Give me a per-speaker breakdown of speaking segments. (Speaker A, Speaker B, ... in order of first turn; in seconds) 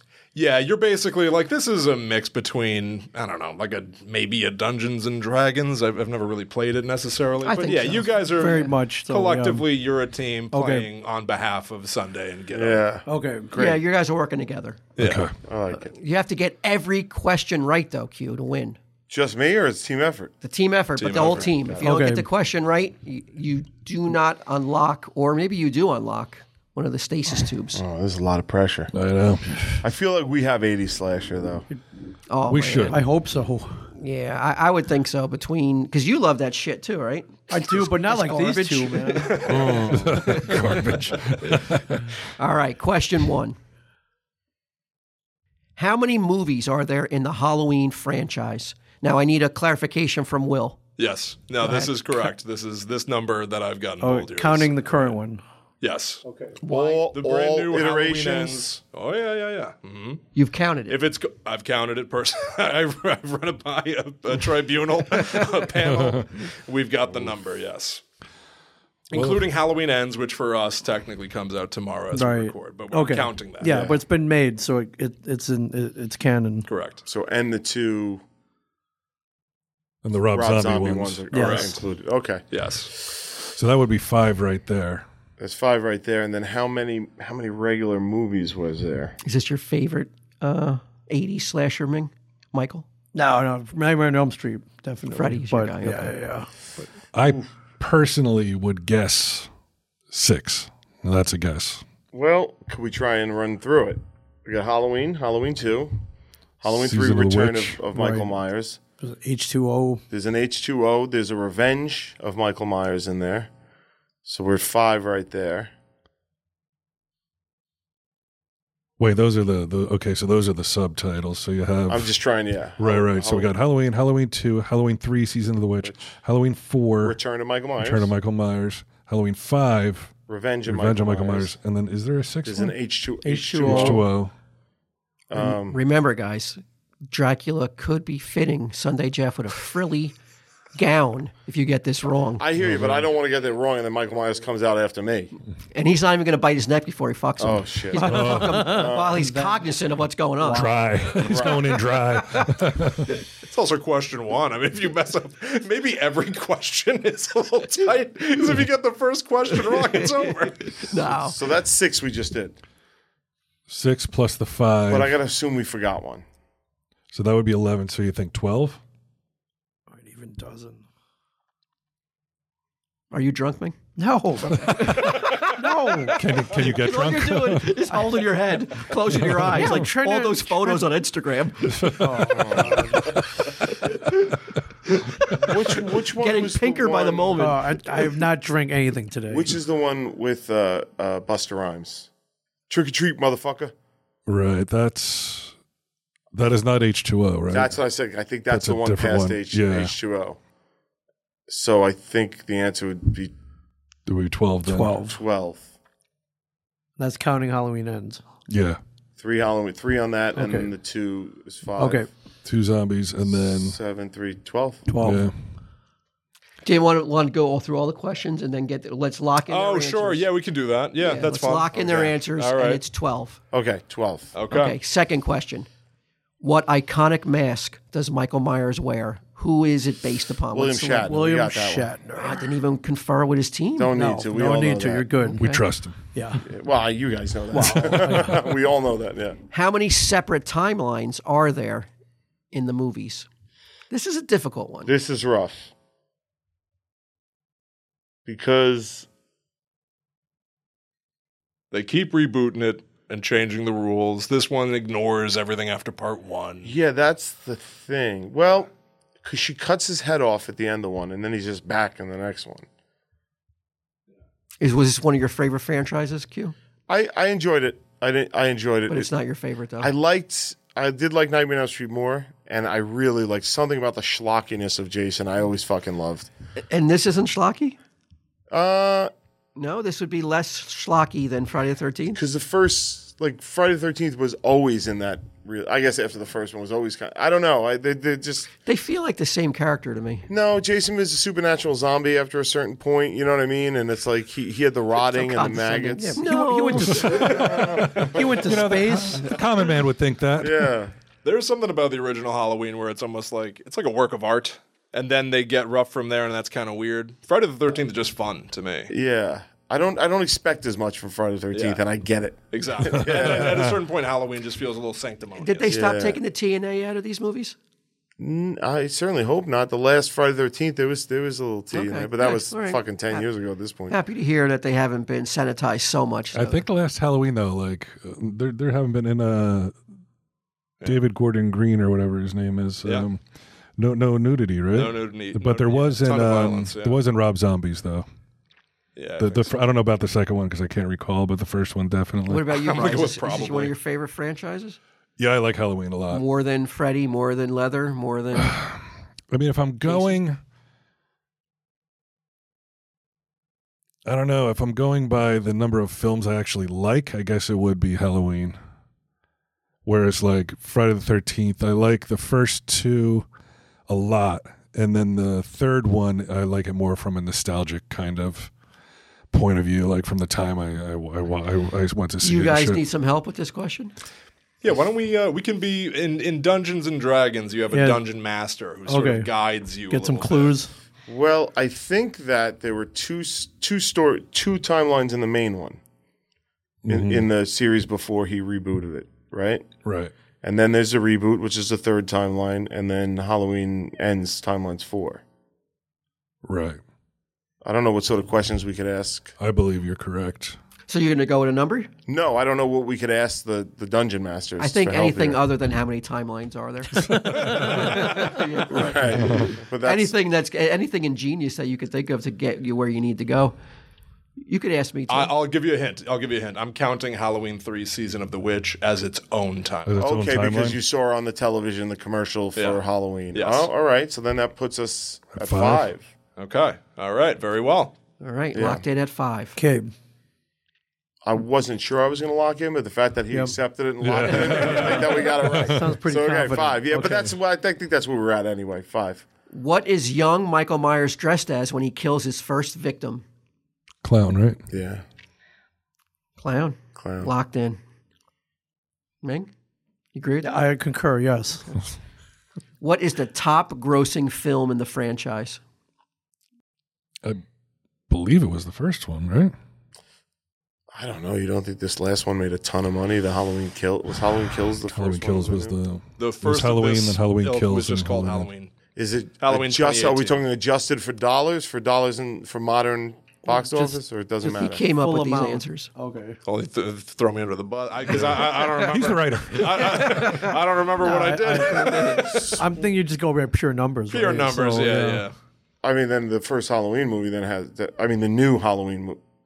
Speaker A: 0.3-12.8, 14.9-15.3, 21.0-21.5, 39.3-39.8, 51.0-55.1, 55.8-60.2, 60.9-68.0, 69.1-73.8, 76.7-77.0, 81.3-81.7, 82.5-82.9, 153.4-160.9, 219.5-222.8, 224.3-224.8, 251.7-256.7, 301.2-308.9, 311.5-311.8, 312.5-315.8, 334.7-337.0, 338.9-339.5, 342.5-343.7, 374.6-380.5, 407.4-408.2, 415.1-420.0, 422.6-422.8, 423.3-423.7, 426.4-427.9, 466.2-468.7, 469.4-470.4, 476.4-482.6, 484.1-485.3
Speaker B: 7.4-8.6, 13.5-14.8, 15.7-18.8, 20.4-27.8, 32.3-33.0, 33.9-40.5, 42.4-43.6, 45.8-50.8, 51.6-51.9, 60.3-61.0, 89.2-92.8, 95.1-96.1, 135.3-140.1, 140.8-142.4, 145.7-150.7, 160.8-161.3, 173.1-173.7, 174.6-175.6, 176.5-182.0, 183.8-184.2, 184.9-185.6, 186.2-188.0, 216.6-220.3, 221.0-223.4, 224.5-225.7, 226.4-231.1, 232.2-233.9, 239.5-241.9, 242.5-243.3, 243.9-244.9, 264.6-266.5, 268.9-269.9, 276.7-277.8, 279.6-282.2, 288.6-290.3, 295.1-297.4, 315.4-317.6, 321.7-323.3, 323.9-326.6, 342.3-344.8, 346.1-348.6, 349.8-350.1, 372.2-373.9, 400.9-401.9, 404.6-413.6, 414.4-415.3, 428.2-429.6, 439.5-443.2, 446.4-447.8, 449.2-449.5, 450.1-450.5, 452.8-455.6, 473.8-475.9, 481.0-482.5
Speaker C: 8.3-9.7, 10.5-10.9, 13.1-13.5, 21.8-22.3, 32.9-33.9, 37.5-39.6, 54.0-55.4, 56.2-56.5, 72.1-76.7, 81.3-81.7, 93.1-96.9, 107.9-108.3, 109.0-110.0, 133.2-134.0, 147.9-149.7, 150.4-151.4, 169.9-170.8, 174.0-176.2, 179.3-180.9, 182.0-183.0, 187.4-189.5, 204.7-205.2, 207.0-208.2, 210.3-210.7, 211.8-212.1, 214.9-215.3, 231.0-232.6, 233.9-236.4, 237.5-238.4, 295.9-299.4, 377.7-378.0, 378.9-379.3, 379.9-380.7, 407.2-407.7, 429.6-429.9, 433.3-433.6, 434.5-437.4, 450.4-451.7, 473.6-473.9, 474.8-476.4, 481.0-485.2
Speaker D: 12.5-13.8, 15.4-15.9, 19.1-20.3, 27.7-28.9, 29.8-31.6, 39.5-40.2, 56.6-58.7, 73.6-74.0, 77.0-78.2, 80.3-82.4, 85.4-89.2, 102.1-105.9, 106.6-108.8, 110.1-113.5, 114.2-115.7, 121.9-123.5, 125.8-126.1, 127.0-128.1, 130.3-131.5, 132.4-134.1, 135.3-135.8, 142.4-145.3, 147.4-149.3, 151.2-151.6, 161.2-162.6, 164.9-166.2, 182.2-183.1, 185.4-187.5, 189.3-192.1, 192.7-193.7, 197.5-200.4, 201.5-203.3, 205.0-205.7, 209.2-212.1, 213.2-214.8, 223.5-224.3, 230.5-231.9, 233.8-235.3, 236.4-239.4, 244.8-245.7, 248.2-249.1, 256.6-258.7, 259.2-262.6, 266.9-269.1, 269.8-276.3, 278.5-279.1, 282.1-288.5, 290.3-296.2, 297.0-298.5, 300.4-300.9, 308.9-313.7, 315.7-316.2, 318.2-324.0, 381.1-385.8, 386.9-389.6, 390.4-395.2, 397.6-399.3, 402.1-405.4, 408.7-410.1, 420.0-426.1, 428.5-428.8, 431.2-439.2, 444.7-445.0, 446.9-447.3, 460.9-465.8, 468.9-474.8, 485.8-489.2
Speaker E: 15.0-15.3, 28.9-29.8, 32.5-33.0, 39.9-42.0, 65.9-66.2, 69.1-69.4, 80.0-81.2, 83.5-85.0, 97.1-99.5, 100.1-101.8, 106.7-107.8, 119.0-122.1, 122.8-127.2, 127.8-130.1, 130.7-132.7, 133.6-134.3, 142.6-143.1, 148.0-148.7, 150.5-153.1, 163.7-165.1, 167.1-168.8, 176.1-177.8, 179.4-179.7, 181.8-182.2, 194.3-195.5, 196.3-197.8, 198.5-199.9, 204.1-205.0, 208.5-208.8, 212.4-213.8, 215.0-215.3, 235.4-236.0, 297.7-300.7, 313.0-313.7, 326.3-329.8, 330.8-333.2, 333.8-338.1, 339.2-342.5, 345.2-346.2, 348.4-350.4, 354.0-358.6, 359.8-363.2, 363.9-368.5, 369.3-372.8, 386.8-387.3, 389.8-390.1, 396.4-396.8, 399.4-400.6, 419.9-420.8, 425.4-425.9, 434.0-435.9, 444.0-444.6, 458.1-459.5, 464.9-468.5, 478.7-480.4